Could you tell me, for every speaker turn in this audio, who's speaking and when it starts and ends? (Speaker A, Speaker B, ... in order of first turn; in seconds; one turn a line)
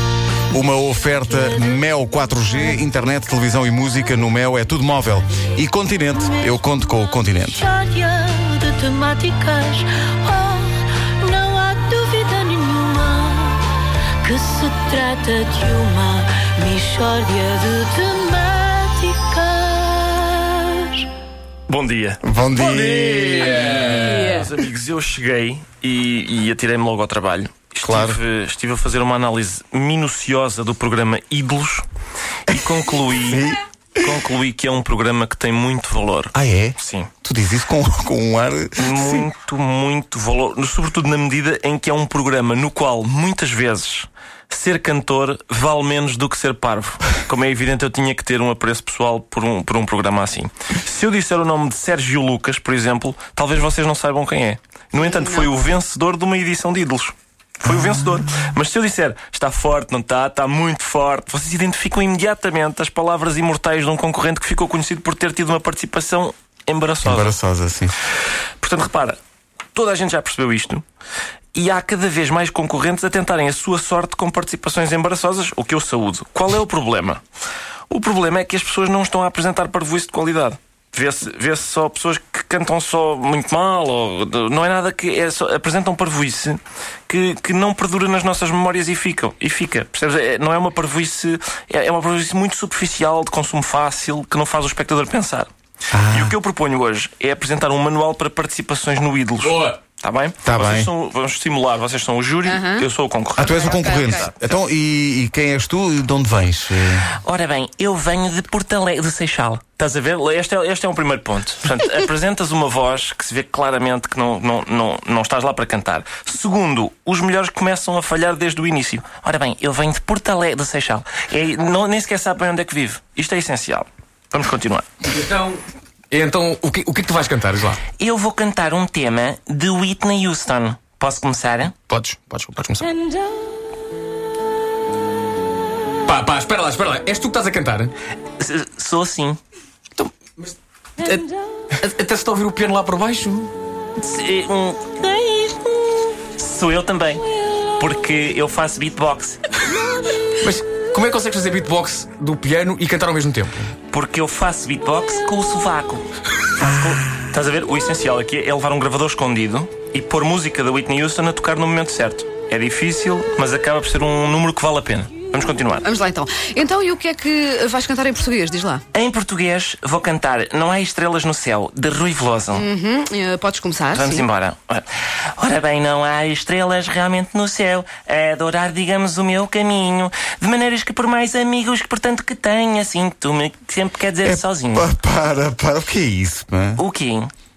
Speaker A: 0.5-7.7
Speaker B: 7.7-13.7
Speaker B: 14.2-21.1
Speaker C: 21.7-31.9
Speaker A: 22.2-23.6
Speaker D: 23.2-24.3
Speaker A: 27.8-28.2
Speaker C: 32.5-33.5
Speaker A: 33.3-33.6
Speaker C: 34.0-37.1
Speaker A: 36.3-39.3
Speaker C: 38.8-67.3
Speaker E: 55.0-55.5
Speaker A: 67.0-68.0
Speaker C: 68.6-69.2
Speaker C: 69.8-70.8
Speaker C: 71.5-77.2
Speaker C: 77.9-95.5
Speaker A: 95.9-96.3
Speaker C: 96.1-104.5
Speaker D: 99.4-99.8
Speaker A: 100.4-100.9
Speaker E: 102.5-102.9
Speaker A: 103.4-107.1
Speaker E: 103.4-104.3
Speaker C: 107.2-124.9
Speaker D: 125.1-127.8
Speaker C: 128.0-131.8
Speaker D: 131.9-132.9
Speaker D: 136.1-137.9
Speaker C: 138.4-139.4
Speaker D: 140.0-143.5
Speaker C: 144.0-147.2
Speaker C: 147.8-149.4
Speaker D: 150.4-153.8
Speaker C: 153.9-165.9
Speaker E: 165.8-168.8
Speaker C: 168.9-172.7
Speaker E: 172.5-174.2
Speaker C: 173.9-184.9
Speaker A: 184.2-186.8
Speaker C: 186.8-187.3